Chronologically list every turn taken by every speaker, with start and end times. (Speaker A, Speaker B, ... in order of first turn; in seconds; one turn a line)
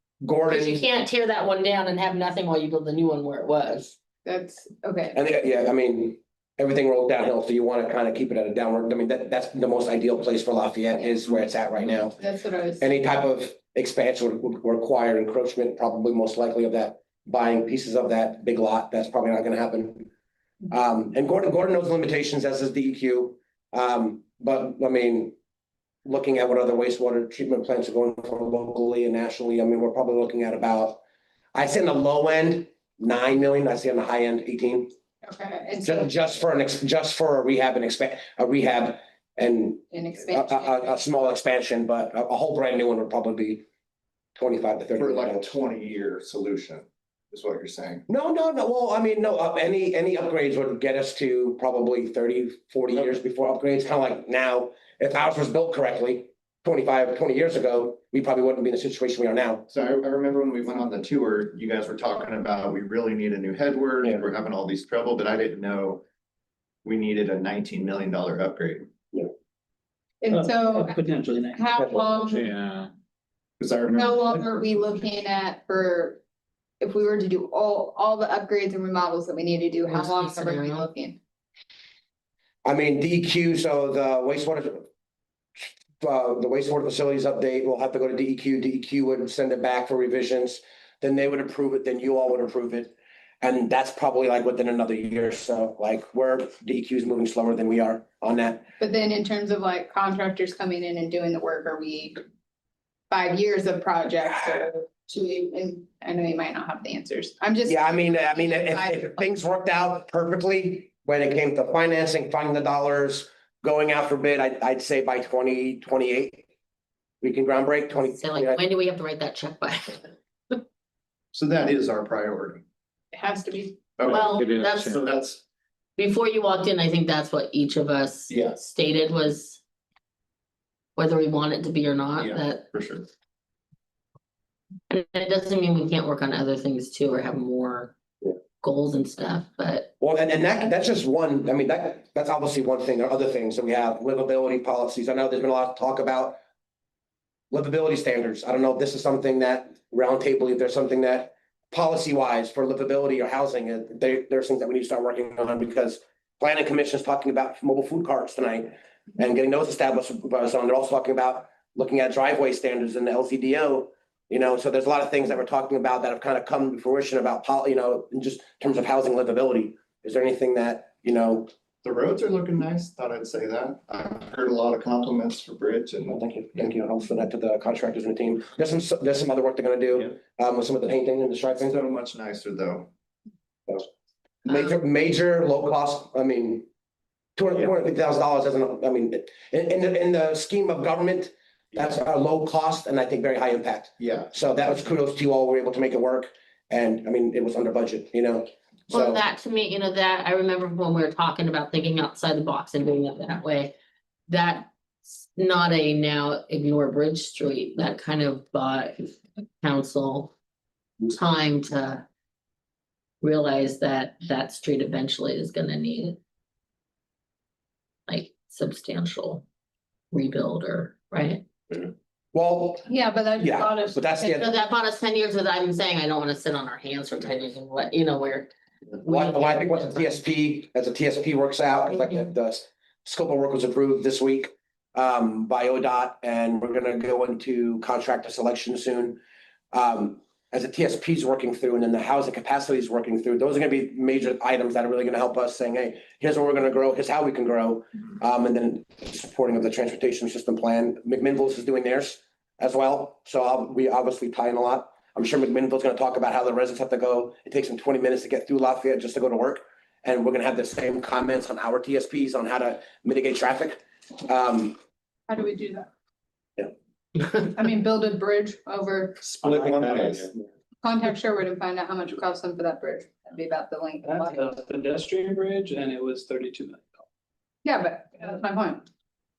Speaker A: 0.2-0.8
Speaker B: 0.5-4.0
Speaker C: 4.2-5.2
Speaker A: 5.1-12.2
Speaker C: 12.2-12.9
Speaker A: 12.8-20.1
Speaker A: 20.7-25.3
Speaker A: 26.0-31.0
Speaker A: 31.5-34.9
Speaker C: 35.2-36.1
Speaker A: 35.8-43.6
Speaker C: 39.9-41.0
Speaker A: 44.4-45.5
Speaker D: 45.0-48.0
Speaker A: 48.1-59.6
Speaker D: 59.7-66.0
Speaker D: 66.8-68.8
Speaker C: 70.2-72.5
Speaker E: 70.3-71.6
Speaker F: 71.8-72.9
Speaker D: 73.6-74.3
Speaker C: 73.9-76.2
Speaker C: 76.8-81.2
Speaker B: 79.9-80.9
Speaker A: 82.6-84.9
Speaker A: 85.6-98.7
Speaker C: 98.8-102.2
Speaker C: 103.1-109.1
Speaker A: 107.7-116.4
Speaker A: 117.2-118.6
Speaker B: 117.9-120.1
Speaker D: 121.3-122.6
Speaker C: 123.1-123.8
Speaker D: 124.0-125.4
Speaker B: 124.1-125.0
Speaker F: 124.1-125.0
Speaker B: 126.0-129.6
Speaker D: 128.3-128.6
Speaker B: 130.9-132.6
Speaker D: 132.2-133.1
Speaker B: 134.9-137.9
Speaker B: 138.6-139.9
Speaker A: 140.0-146.4
Speaker A: 147.5-171.5
Speaker D: 171.8-176.2
Speaker A: 176.1-181.8
Speaker D: 181.6-182.9
Speaker A: 184.4-186.7
Speaker A: 187.4-199.2
Speaker D: 194.0-194.3
Speaker B: 198.9-203.7
Speaker B: 204.3-210.3
Speaker B: 211.1-212.0
Speaker B: 213.2-216.2
Speaker B: 218.1-219.4
Speaker B: 220.1-221.4
Speaker A: 222.3-222.8
Speaker C: 222.9-224.3
Speaker A: 223.4-224.5
Speaker B: 224.3-230.1
Speaker A: 229.0-239.2
Speaker A: 239.7-264.8
Speaker C: 265.3-265.9
Speaker C: 267.5-269.2
Speaker D: 269.2-270.3
Speaker C: 270.8-274.6
Speaker E: 274.0-276.9
Speaker C: 277.6-278.8